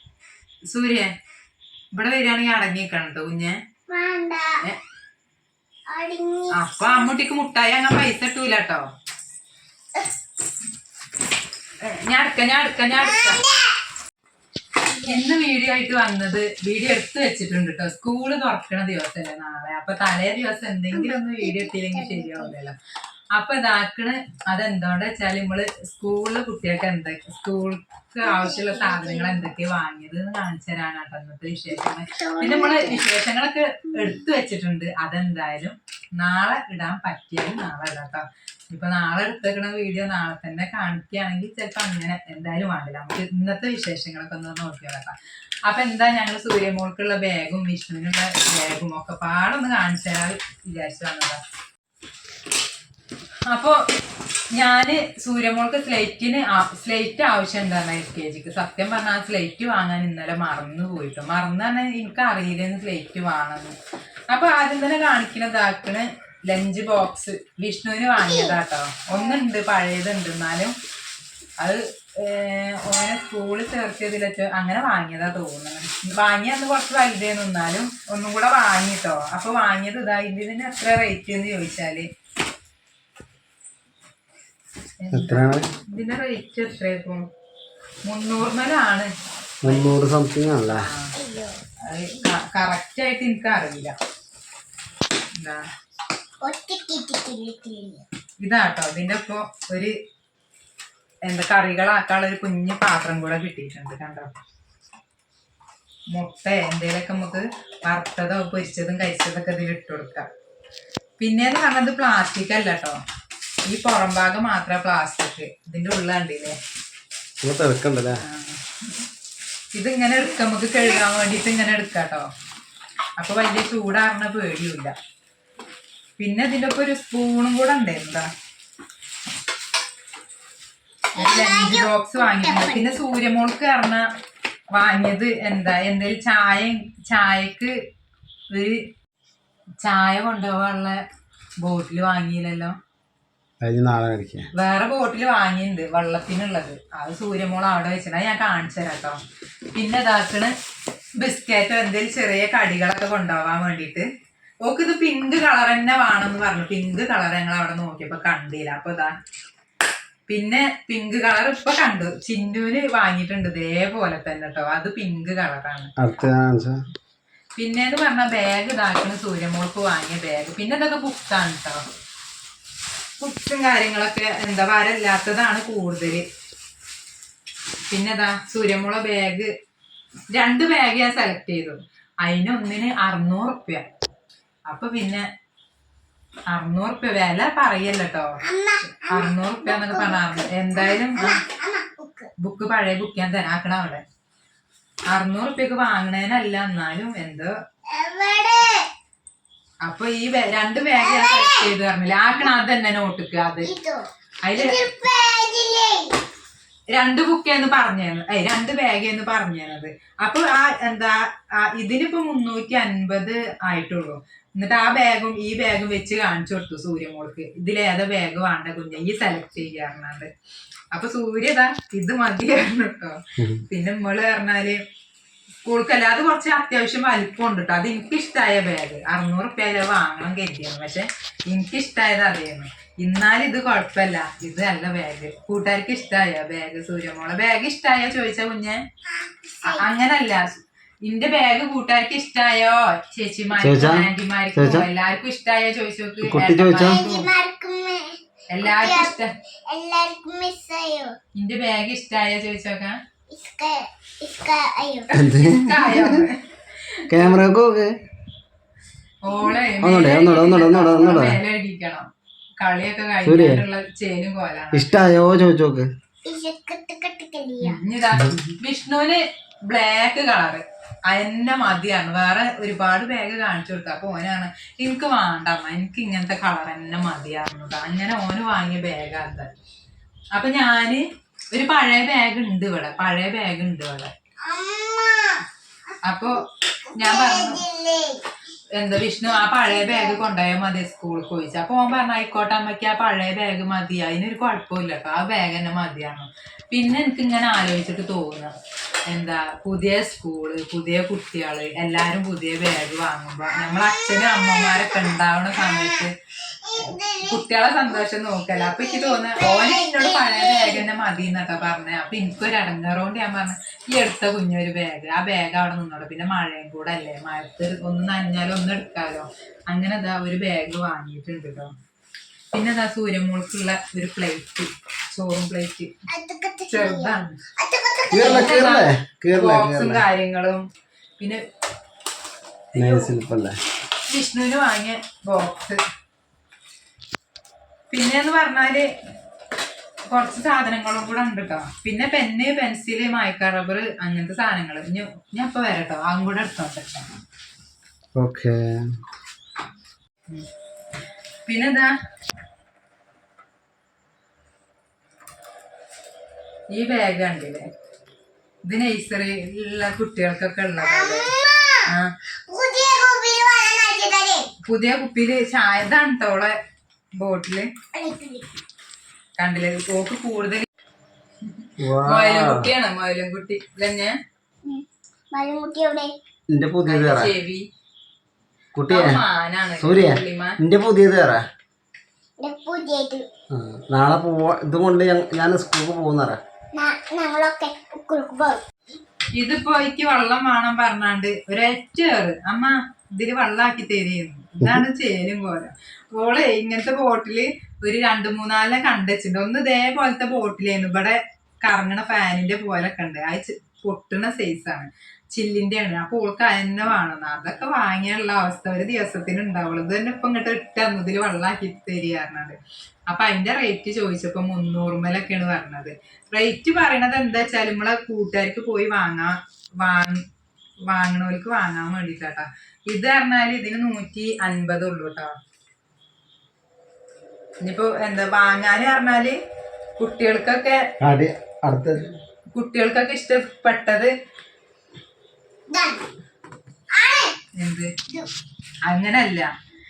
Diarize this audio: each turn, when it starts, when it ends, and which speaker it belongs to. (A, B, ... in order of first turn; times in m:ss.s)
0:00.7-0:01.1 A
0:01.9-0:03.6 A
0:03.9-0:04.6 B
0:05.9-0:07.1 B
0:06.5-0:08.9 A
0:11.8-0:13.4 A
0:13.0-0:13.7 B
0:14.9-0:15.2 B
0:15.1-0:22.7 A
0:20.9-0:22.5 B
0:23.3-0:45.2 A
0:28.2-0:29.5 B
0:32.1-0:33.0 B
0:45.7-0:51.4 A
0:53.5-0:53.8 A
0:54.6-1:03.7 A
1:04.3-1:10.7 A
1:08.2-1:08.6 B
1:11.6-1:22.1 A
1:25.0-1:27.2 A
1:25.1-1:25.7 C
1:28.0-1:29.1 A
1:29.6-1:29.9 A
1:29.6-1:30.9 C
1:30.7-1:31.1 A
1:31.1-1:31.6 B
1:31.8-1:33.9 A
1:35.4-1:35.6 A
1:36.4-1:38.0 B
1:38.4-1:39.9 A
1:41.2-1:44.3 A
1:46.1-1:50.3 A
1:51.2-1:53.0 A
1:53.7-1:56.6 A
1:57.4-1:58.2 C
1:58.2-1:58.6 A
1:59.7-2:02.3 A
2:03.2-2:04.9 A
2:06.2-2:08.3 A
2:11.2-2:14.0 A
2:11.2-2:12.9 B
2:14.7-2:17.7 A
2:18.5-2:18.9 A
2:19.8-2:21.0 A
2:21.6-2:22.7 A
2:23.6-2:24.5 C
2:24.5-2:29.2 A
2:29.7-2:30.5 A
2:31.2-2:34.1 A
2:34.6-2:39.1 A
2:40.3-2:45.9 A
2:46.0-2:46.8 C
2:47.6-2:51.8 A
2:53.2-2:56.2 A
2:57.9-2:59.5 A
3:00.3-3:03.8 A
3:04.7-3:05.2 A
3:06.5-3:08.4 A
3:08.4-3:12.3 B
3:09.1-3:11.4 A
3:12.4-3:14.0 A
3:15.1-3:17.5 A
3:17.9-3:18.9 B
3:19.8-3:23.7 A
3:21.0-3:21.7 B
3:23.6-3:24.0 B
3:24.4-3:24.8 A
3:24.6-3:26.1 B
3:26.9-3:40.3 A
3:40.9-3:44.8 A
3:45.6-3:58.8 A
3:59.6-4:00.4 A
4:01.0-4:07.3 A
4:03.6-4:04.9 C
4:06.2-4:07.0 C
4:06.8-4:09.2 B
4:08.5-4:09.3 A
4:09.7-4:11.2 B
4:11.4-4:13.0 A
4:13.3-4:15.1 B
4:15.1-4:16.4 A
4:15.1-4:16.2 C
4:17.1-4:17.9 C
4:17.1-4:17.4 A
4:19.2-4:22.1 A
4:19.8-4:21.4 C
4:22.6-4:24.9 A
4:23.2-4:23.6 C
4:24.7-4:25.9 C
4:26.2-4:27.8 B
4:27.6-4:39.5 A
4:40.3-4:44.1 A
4:44.4-4:45.4 B
4:46.0-4:47.6 A
4:47.0-4:48.2 B
4:48.8-4:58.5 A
4:49.2-4:50.2 B
4:59.1-5:06.1 A
5:03.5-5:06.1 B
5:06.6-5:07.4 B
5:07.2-5:21.7 A
5:08.6-5:10.8 B
5:22.5-5:25.9 A
5:26.1-5:28.6 B
5:26.7-5:27.4 A
5:28.1-5:30.0 C
5:28.2-5:30.6 A
5:32.7-5:33.6 C
5:32.8-5:33.1 B
5:34.1-5:35.8 A
5:37.9-5:38.9 A
5:40.1-5:47.1 A
5:48.1-5:48.7 C
5:51.4-5:51.9 A
5:56.7-5:57.7 A
5:58.6-6:01.3 A
6:00.8-6:01.9 B
6:01.8-6:02.1 A
6:02.5-6:04.5 B
6:04.6-6:06.5 A
6:07.2-6:07.7 A
6:07.9-6:08.5 B
6:09.4-6:10.6 A
6:11.5-6:14.2 A
6:11.8-6:12.7 C
6:14.6-6:16.1 B
6:16.5-6:17.3 C
6:16.8-6:17.7 A
6:18.7-6:19.2 C
6:18.9-6:20.6 A
6:19.8-6:21.4 C
6:22.4-6:23.2 B
6:23.5-6:26.4 C
6:26.7-6:28.6 B
6:29.4-6:52.6 A
6:53.1-7:00.2 A
7:00.9-7:05.3 A
7:07.6-7:09.4 A
7:10.0-7:10.8 A
7:11.0-7:12.1 C
7:12.5-7:14.1 A
7:15.7-7:16.0 B
7:16.9-7:17.4 B
7:17.6-7:17.9 A
7:18.8-7:19.5 A